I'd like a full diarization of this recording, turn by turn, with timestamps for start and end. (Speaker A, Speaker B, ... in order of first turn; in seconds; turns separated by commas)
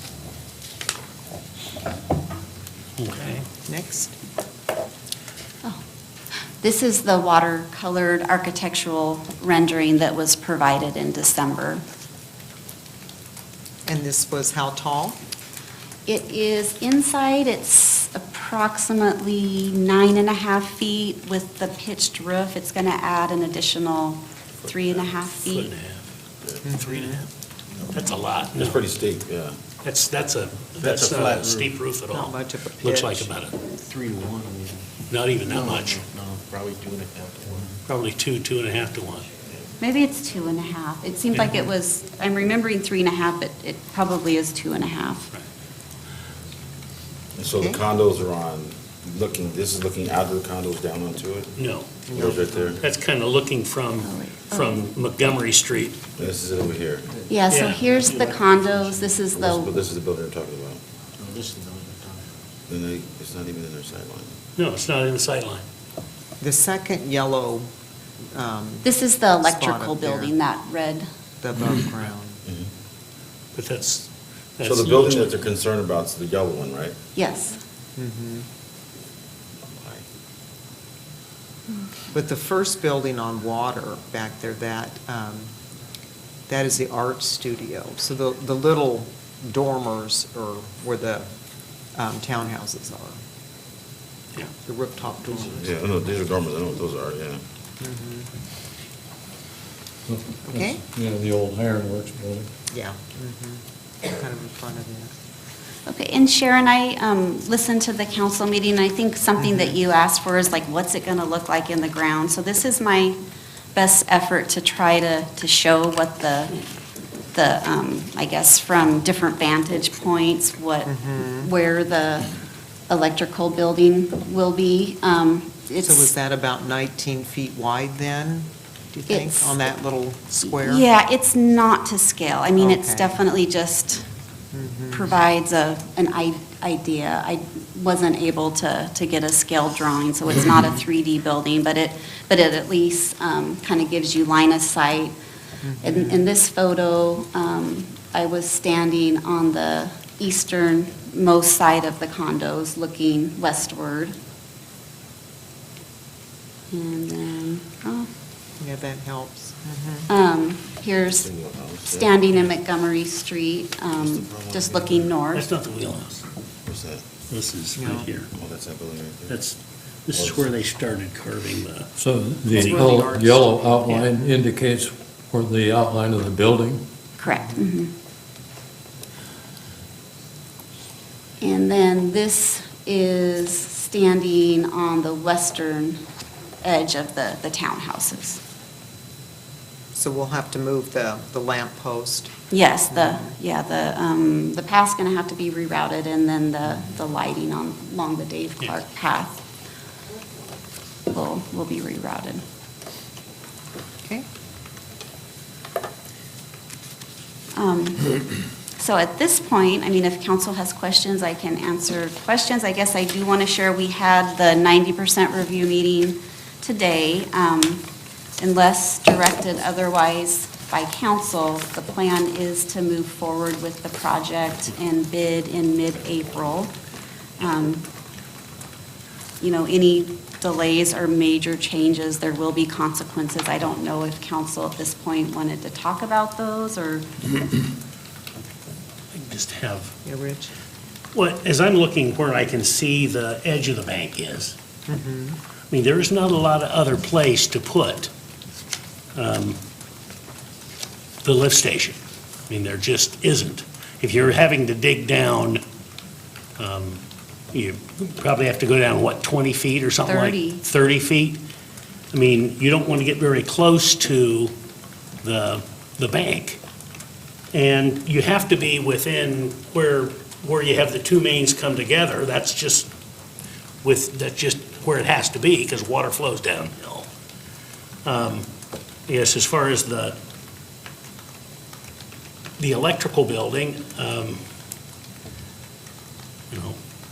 Speaker A: 3.0-3.5, Speaker B: 3.7-4.1, Speaker C: 6.6-11.8, Speaker B: 13.9-15.2, Speaker C: 16.1-25.7, Speaker A: 25.0-26.1, Speaker B: 26.6-27.3, Speaker A: 26.8-27.3, Speaker A: 27.9-28.8, Speaker D: 28.6-29.6, Speaker A: 29.8-33.7, Speaker E: 30.8-31.8, Speaker B: 32.1-33.3, Speaker E: 33.8-37.8, Speaker A: 35.1-36.1, Speaker A: 37.9-39.3, Speaker C: 39.8-45.3, Speaker D: 47.4-51.5, Speaker A: 51.6-52.0, Speaker B: 52.1-52.8, Speaker D: 52.1-52.8, Speaker A: 52.8-56.1, Speaker C: 54.0-54.8, Speaker D: 56.2-57.1, Speaker C: 57.3-59.7, Speaker A: 57.5-57.9, Speaker E: 57.9-59.1, Speaker D: 59.4-60.8, Speaker E: 61.2-62.3, Speaker D: 62.7-64.3, Speaker A: 64.6-65.7, Speaker B: 66.4-67.7, Speaker B: 68.3-68.9, Speaker C: 68.8-71.1, Speaker B: 69.4-70.3, Speaker B: 71.4-72.4, Speaker A: 73.5-75.5, Speaker D: 74.6-77.0, Speaker C: 77.2-77.6, Speaker B: 78.0-78.5, Speaker D: 79.6-80.0, Speaker B: 82.1-85.5, Speaker B: 86.5-91.3, Speaker B: 92.0-93.2, Speaker B: 94.7-95.7, Speaker D: 95.5-97.4, Speaker B: 97.8-98.3, Speaker F: 100.1-102.5, Speaker B: 100.5-100.8, Speaker B: 102.7-105.1, Speaker C: 105.9-113.2, Speaker B: 109.4-109.8, Speaker C: 113.7-116.6, Speaker C: 117.3-122.3, Speaker B: 120.9-121.5, Speaker C: 122.9-126.1, Speaker B: 125.8-130.9, Speaker C: 129.1-129.6, Speaker C: 130.5-134.1, Speaker B: 132.6-133.2, Speaker B: 134.5-135.1, Speaker C: 134.9-145.2, Speaker B: 145.6-146.3, Speaker C: 145.8-154.2, Speaker C: 156.7-158.1, Speaker B: 158.6-160.1, Speaker C: 160.1-161.3, Speaker D: 161.1-162.2, Speaker C: 161.9-165.5, Speaker D: 163.9-165.1, Speaker A: 165.3-166.3, Speaker D: 166.7-167.0, Speaker A: 167.3-168.3, Speaker B: 167.8-168.1, Speaker D: 168.3-169.4, Speaker A: 169.3-171.9, Speaker D: 170.1-170.5, Speaker F: 172.0-176.8, Speaker A: 172.5-174.1, Speaker C: 177.2-177.9, Speaker B: 177.3-177.7, Speaker C: 181.4-186.0, Speaker C: 186.6-188.4, Speaker B: 189.9-192.3, Speaker C: 192.5-199.4, Speaker B: 192.9-193.4, Speaker C: 201.1-202.4, Speaker C: 207.6-208.2, Speaker C: 208.8-217.8, Speaker C: 218.4-226.7, Speaker C: 227.4-227.9, Speaker C: 229.4-237.1, Speaker A: 239.1-239.9, Speaker B: 240.1-240.5, Speaker A: 241.1-244.6, Speaker B: 244.9-245.4, Speaker A: 245.7-248.1, Speaker A: 249.2-249.6, Speaker A: 251.2-255.6, Speaker A: 256.6-261.4, Speaker C: 260.1-260.6, Speaker A: 262.1-264.5, Speaker A: 265.2-266.6, Speaker A: 267.5-272.9, Speaker A: 273.8-277.1, Speaker A: 278.1-278.5, Speaker A: 279.1-280.2, Speaker A: 282.6-284.4, Speaker A: 286.5-286.8